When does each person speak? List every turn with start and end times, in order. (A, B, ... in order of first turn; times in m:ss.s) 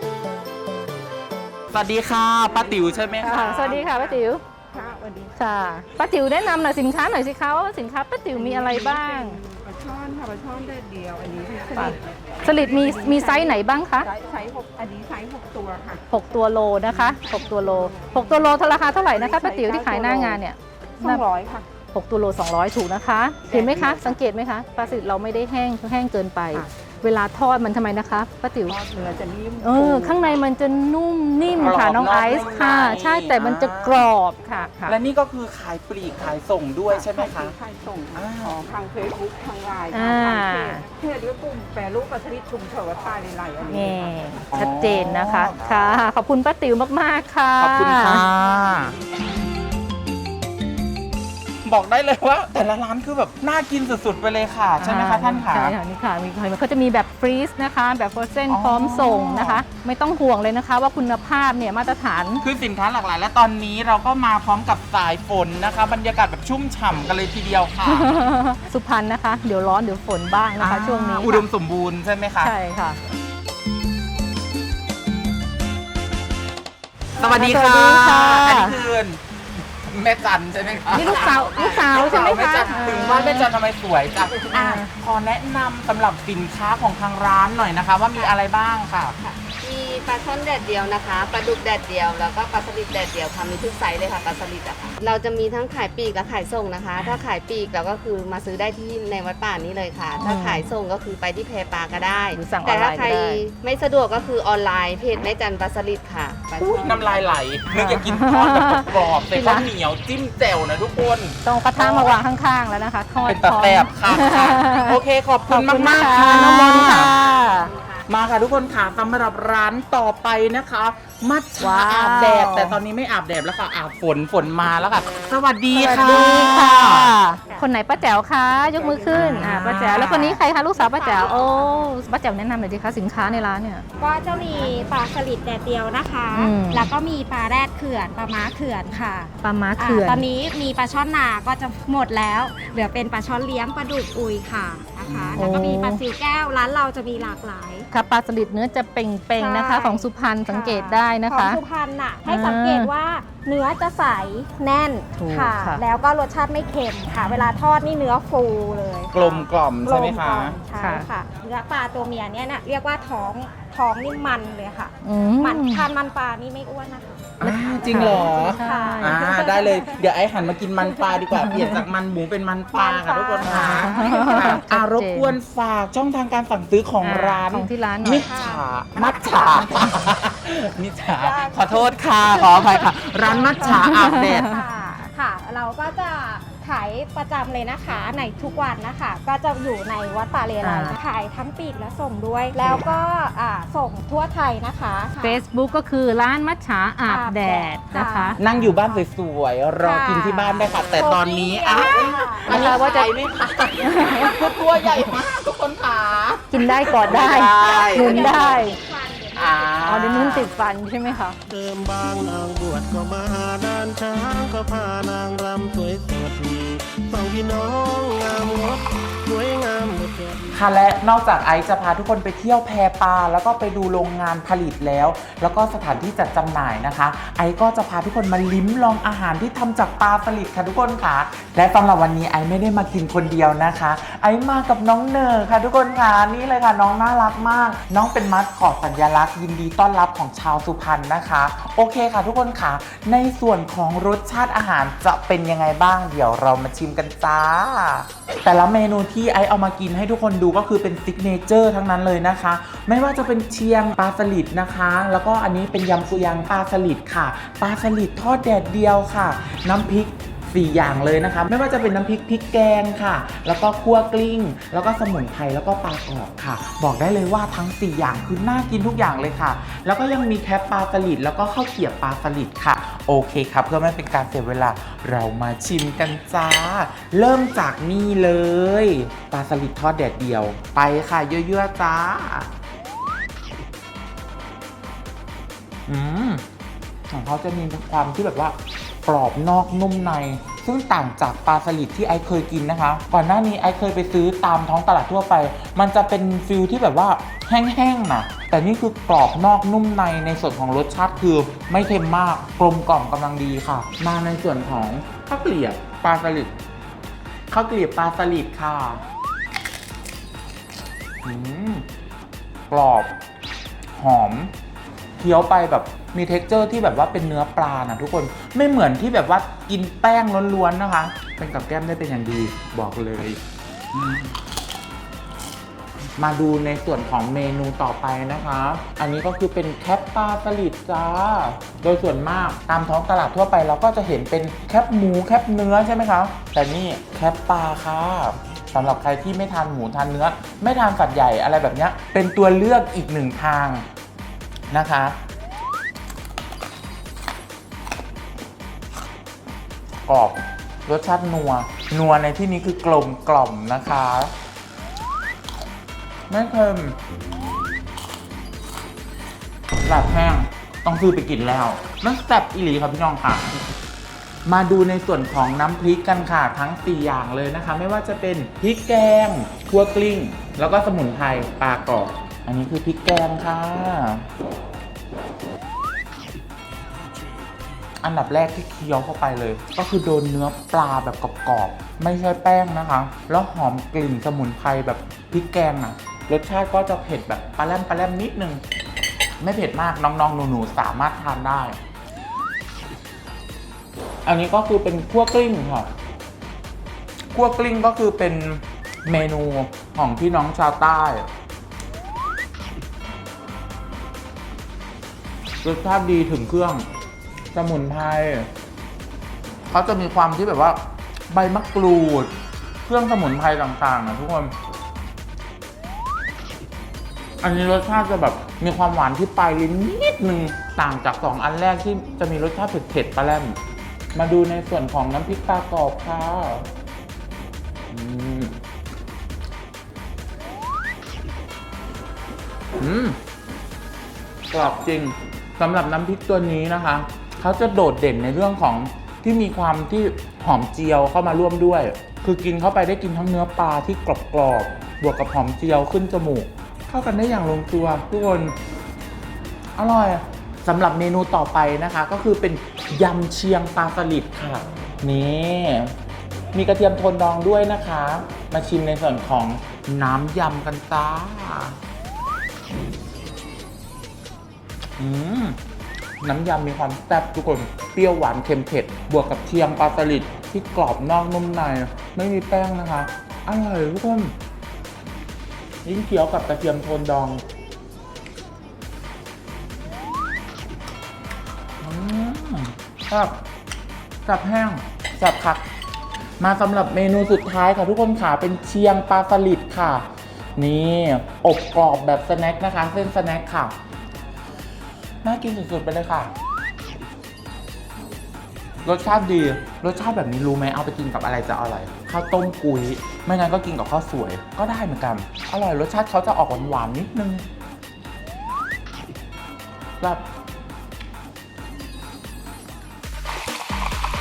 0:01.7-0:03.8 A
0:02.5-0:05.3 B
0:03.2-0:04.4 C
0:05.4-0:09.4 C
0:08.3-0:16.0 B
0:11.7-0:14.1 C
0:16.1-0:21.2 C
0:16.8-0:20.4 B
0:21.0-0:21.7 B
0:21.9-0:28.8 C
0:23.4-0:24.2 B
0:28.6-0:30.4 B
0:29.6-0:35.0 C
0:31.6-0:34.0 A
0:34.8-0:37.5 A
0:36.9-0:44.1 B
0:38.1-0:38.5 A
0:39.9-0:40.8 C
0:43.7-0:48.2 C
0:44.5-0:46.0 A
0:47.6-0:48.9 A
0:51.6-0:55.7 A
0:54.8-1:02.4 C
0:58.5-0:59.6 A
1:02.4-1:08.1 A
1:07.8-1:11.4 C
1:10.6-1:12.5 A
1:12.4-1:13.0 C
1:17.2-1:18.8 C
1:17.2-1:19.2 A
1:19.8-1:29.2 A
1:20.9-1:23.5 C
1:21.0-1:23.0 D
1:24.5-1:24.9 C
1:29.6-1:47.4 E
1:40.2-1:40.6 C
1:42.3-1:43.4 C
1:46.6-1:52.2 A
1:47.7-1:49.7 C
1:51.4-1:57.7 C
1:53.2-1:57.2 A
1:58.1-2:07.2 A
2:01.6-2:02.8 C
2:05.7-2:13.8 C
2:08.7-2:11.9 D
2:09.2-2:09.9 A
2:13.2-2:27.9 D
2:16.3-2:16.9 C
2:19.4-2:20.2 C
2:25.0-2:25.5 A
2:25.3-2:26.0 C
2:27.9-2:31.6 C
2:29.3-2:49.8 D
2:32.2-2:32.9 C
2:35.2-2:35.8 C
2:39.1-2:40.6 A
2:40.8-2:41.0 C
2:45.0-2:45.8 C
2:47.4-3:04.5 A
2:47.4-2:49.9 C
2:51.0-2:51.7 D
2:51.3-2:51.8 C
2:52.7-2:54.6 D
2:53.4-2:55.4 C
2:57.0-2:58.3 C
2:58.0-2:59.9 D
3:01.1-3:01.9 D
3:03.2-3:15.4 D
3:03.6-3:04.6 C
3:10.6-3:11.0 C
3:15.2-3:18.7 C
3:17.1-3:19.0 D
3:18.4-3:28.5 A
3:19.8-3:23.0 D
3:22.4-3:23.1 C
3:23.8-3:24.4 C
3:24.0-3:24.3 D
3:26.5-3:28.8 C
3:26.9-3:29.8 D
3:29.3-3:30.5 A
3:29.8-3:31.4 C
3:31.5-3:40.4 F
3:40.5-4:42.5 A
4:45.9-4:46.4 A
4:47.1-5:06.5 A
5:07.5-5:09.0 A
5:11.2-5:11.8 A
5:12.7-5:13.1 A
5:14.0-5:14.5 A
5:15.2-5:23.4 A
5:26.2-5:43.8 A
5:44.7-5:45.2 A
5:50.1-5:54.3 A
5:56.3-5:57.0 A
5:59.8-6:03.5 A
6:04.4-6:14.3 A
6:18.0-6:28.6 A
6:29.4-6:31.8 A
6:34.2-6:35.9 A
6:37.3-6:41.3 A
6:45.6-6:46.8 A
6:47.5-6:48.5 A
6:49.7-6:52.3 A
6:52.8-6:54.5 A
6:57.4-7:03.6 A
7:04.1-7:06.7 A
7:07.9-7:08.6 A
7:12.8-7:13.2 A
7:14.5-7:28.5 A
7:29.8-7:35.9 A
7:36.5-7:41.8 A
7:45.0-7:45.6 A
7:46.2-7:54.3 A
7:55.8-7:57.4 A
8:01.8-8:03.4 A
8:04.2-8:05.6 A
8:06.4-8:10.0 A
8:10.6-8:13.7 A
8:15.2-8:16.3 A
8:18.8-8:27.4 A